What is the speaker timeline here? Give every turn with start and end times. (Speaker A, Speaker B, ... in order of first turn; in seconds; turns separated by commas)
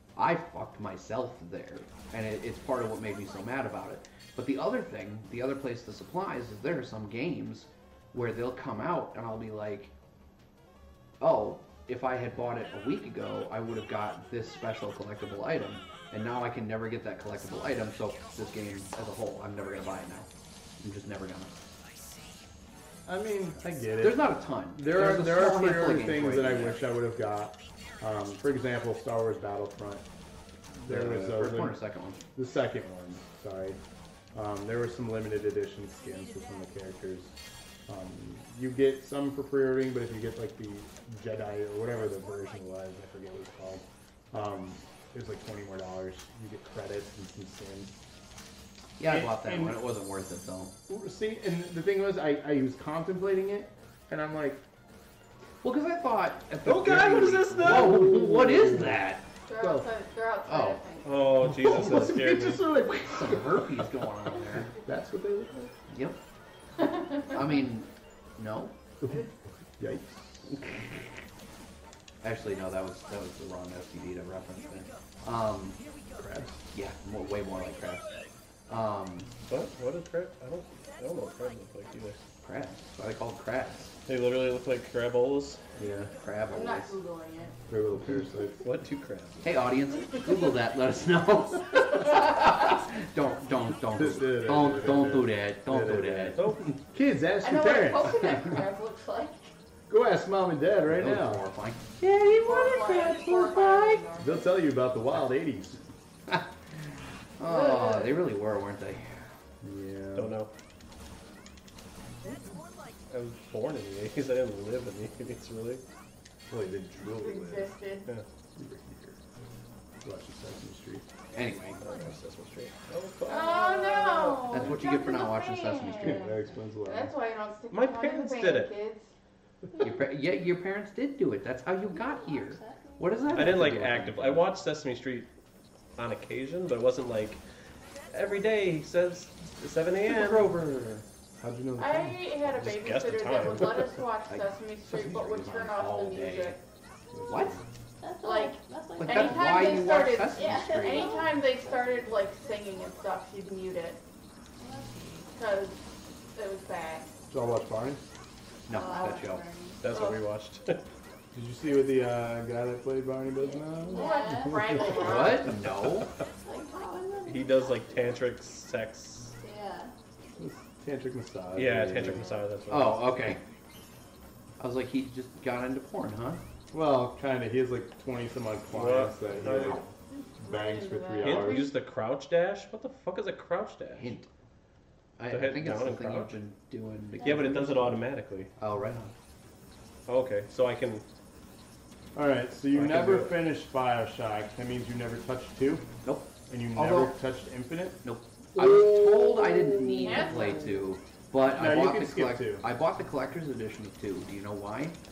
Speaker A: 0.1-9.9, Speaker A: 11.2-20.3, Speaker A: 20.8-21.5, Speaker B: 23.1-30.0, Speaker A: 24.0-26.9, Speaker B: 30.8-31.8, Speaker A: 30.9-32.2, Speaker B: 32.4-33.8, Speaker B: 34.3-37.3, Speaker B: 37.9-48.0, Speaker A: 49.0-50.7, Speaker B: 49.0-49.8, Speaker B: 50.9-54.6, Speaker A: 55.6-59.3, Speaker C: 56.6-58.1, Speaker B: 57.6-59.0, Speaker D: 59.5-61.2, Speaker B: 59.6-59.9, Speaker A: 60.5-60.8, Speaker C: 61.0-62.7, Speaker B: 61.4-63.9, Speaker A: 63.0-64.7, Speaker B: 64.4-65.7, Speaker A: 65.9-66.2, Speaker A: 67.3-68.7, Speaker B: 69.0-69.3, Speaker B: 69.8-70.6, Speaker A: 72.2-75.8, Speaker B: 76.1-76.6, Speaker A: 76.7-78.1, Speaker A: 78.7-79.3, Speaker C: 79.5-82.2, Speaker A: 82.4-84.0, Speaker C: 84.1-85.6, Speaker B: 85.8-86.1, Speaker A: 86.2-87.0, Speaker D: 86.5-87.5, Speaker B: 87.7-88.6, Speaker C: 88.6-89.5, Speaker A: 89.4-96.8, Speaker B: 93.9-98.7, Speaker C: 96.4-96.6, Speaker D: 97.4-99.5, Speaker B: 99.9-101.4, Speaker A: 100.9-104.0, Speaker D: 102.4-104.5, Speaker B: 104.2-105.9, Speaker A: 107.4-109.2, Speaker D: 107.4-108.2, Speaker B: 109.6-110.4, Speaker C: 110.1-110.5, Speaker C: 113.1-115.8, Speaker B: 116.5-117.7, Speaker D: 117.0-118.1, Speaker B: 118.5-119.2, Speaker B: 120.0-121.0, Speaker A: 121.3-121.8, Speaker C: 121.8-124.7, Speaker D: 123.3-126.3, Speaker A: 124.5-126.2, Speaker B: 126.0-127.1, Speaker D: 126.8-129.1, Speaker C: 127.7-128.7, Speaker E: 129.7-130.0, Speaker A: 129.8-134.4, Speaker E: 131.9-133.5, Speaker C: 133.3-135.3, Speaker C: 135.9-137.4, Speaker C: 138.1-140.6, Speaker A: 140.1-141.0, Speaker B: 141.4-142.3, Speaker D: 141.8-146.6, Speaker C: 142.5-144.0, Speaker A: 144.2-146.6, Speaker B: 147.1-147.6, Speaker A: 147.3-147.6, Speaker E: 148.0-151.4, Speaker D: 148.2-154.0, Speaker A: 149.0-151.2, Speaker E: 154.6-155.3, Speaker D: 155.3-157.1, Speaker B: 157.3-158.0, Speaker A: 158.7-159.4, Speaker E: 158.7-159.8, Speaker D: 158.7-159.3, Speaker C: 159.8-160.8, Speaker D: 159.9-160.2, Speaker B: 161.3-165.5, Speaker E: 163.3-165.4, Speaker D: 163.9-165.5, Speaker A: 164.8-166.1, Speaker E: 166.2-168.3, Speaker C: 167.2-169.3, Speaker E: 169.4-169.9, Speaker B: 170.4-172.3, Speaker C: 171.5-173.1, Speaker A: 172.7-173.4, Speaker A: 174.6-176.4, Speaker B: 176.7-181.7, Speaker C: 178.7-179.8, Speaker D: 180.4-181.7, Speaker C: 181.2-184.2, Speaker A: 183.9-184.3, Speaker A: 185.2-188.0, Speaker C: 185.3-186.3, Speaker C: 187.2-188.5, Speaker E: 187.2-187.6, Speaker A: 188.6-189.1, Speaker C: 190.1-191.0, Speaker B: 192.1-195.9, Speaker C: 192.8-193.3, Speaker A: 196.0-197.2, Speaker B: 196.5-198.0, Speaker A: 198.0-204.9, Speaker B: 198.5-200.6, Speaker D: 200.0-200.7, Speaker B: 201.5-202.7